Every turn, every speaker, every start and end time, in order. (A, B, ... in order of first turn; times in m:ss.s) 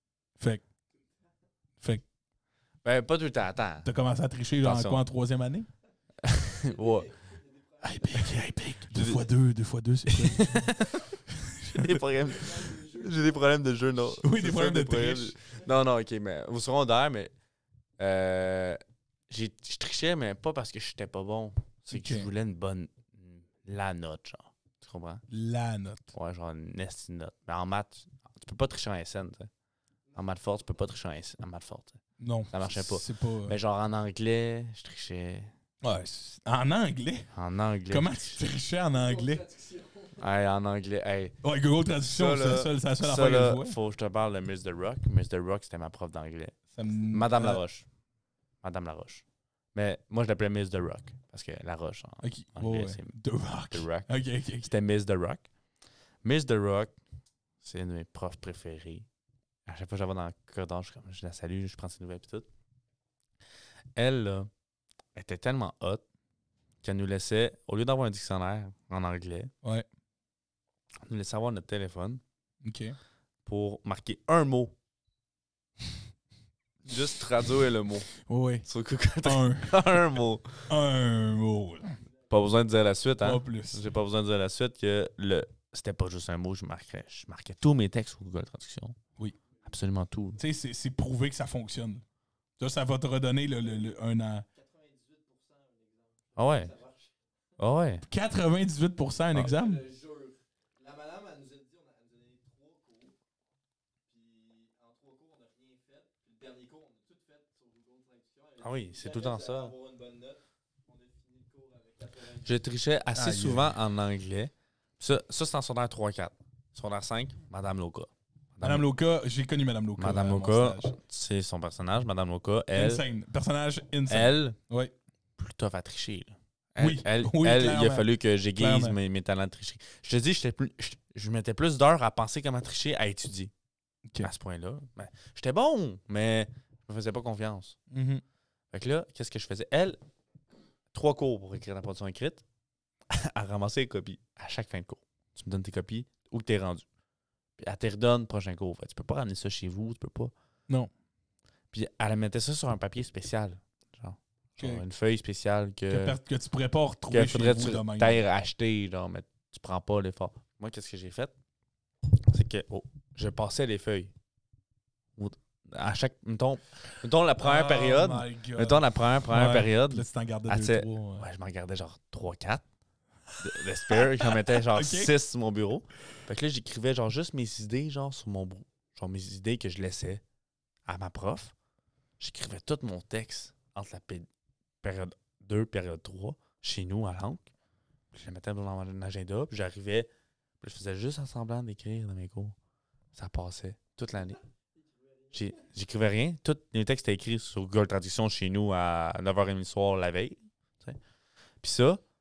0:00.4-0:00.6 A
0:02.8-0:03.9 B
0:03.8-0:05.7 A
0:04.6-0:05.0 B
0:06.2-0:07.1 B
0:06.4-0:08.5 C
0:07.8-0:12.0 A
0:08.9-0:09.2 B
0:10.1-0:17.3 B
0:12.3-0:13.8 C
0:14.2-0:15.3 A
0:18.0-0:25.2 B
0:21.9-0:22.3 A
0:25.3-0:26.1 A
0:26.1-0:29.5 B
0:30.1-0:35.5 B
0:32.2-0:33.5 A
0:35.8-0:37.3 A
0:37.3-0:38.4 B
0:37.9-0:39.4 A
0:38.9-0:40.2 C
0:40.2-0:41.3 B
0:41.4-0:43.8 A
0:42.0-0:47.8 B
0:46.7-0:47.6 A
0:48.6-0:53.2 B
0:52.2-0:54.7 A
0:53.7-0:55.4 B
0:56.2-0:57.0 B
0:57.6-0:59.0 B
0:59.6-1:02.5 B
1:03.9-1:04.5 B
1:05.1-1:06.0 B
1:06.8-1:09.5 B
1:11.0-1:12.2 B
1:12.6-1:13.0 A
1:13.4-1:14.7 B
1:16.8-1:18.1 B
1:18.2-1:18.7 A
1:18.6-1:20.7 B
1:19.2-1:19.9 A
1:20.7-1:22.0 A
1:22.3-1:29.0 B
1:23.2-1:23.8 A
1:29.6-1:30.4 B
1:30.4-1:32.0 A
1:32.6-1:34.4 A
1:34.5-1:37.2 C
1:36.4-1:36.7 B
1:37.6-1:38.0 B
1:38.1-1:39.8 A
1:39.4-1:43.2 C
1:44.1-1:52.7 C
1:48.6-1:49.7 B
1:52.4-1:58.9 B
1:53.1-1:53.7 A
1:58.6-2:01.0 A
2:00.0-2:03.0 B
2:02.7-2:04.9 A
2:04.1-2:04.6 B
2:05.4-2:13.5 B
2:06.8-2:09.0 A
2:14.2-2:17.8 B
2:17.9-2:18.2 A
2:18.7-2:20.0 B
2:20.9-2:22.4 B
2:23.1-2:26.8 B
2:27.6-2:30.3 B
2:31.7-2:36.2 B
2:34.6-2:34.8 A
2:35.9-2:38.2 A
2:37.1-2:41.3 B
2:42.1-2:44.1 B
2:45.2-2:52.6 B
2:47.4-2:51.2 A
2:53.4-3:00.2 B
2:53.6-2:55.1 A
3:00.8-3:01.5 B
3:02.2-3:04.3 B
3:04.8-3:07.5 B
3:08.1-3:12.6 B
3:13.1-3:14.4 B
3:14.8-3:15.6 C
3:15.3-3:21.0 B
3:21.6-3:22.0 B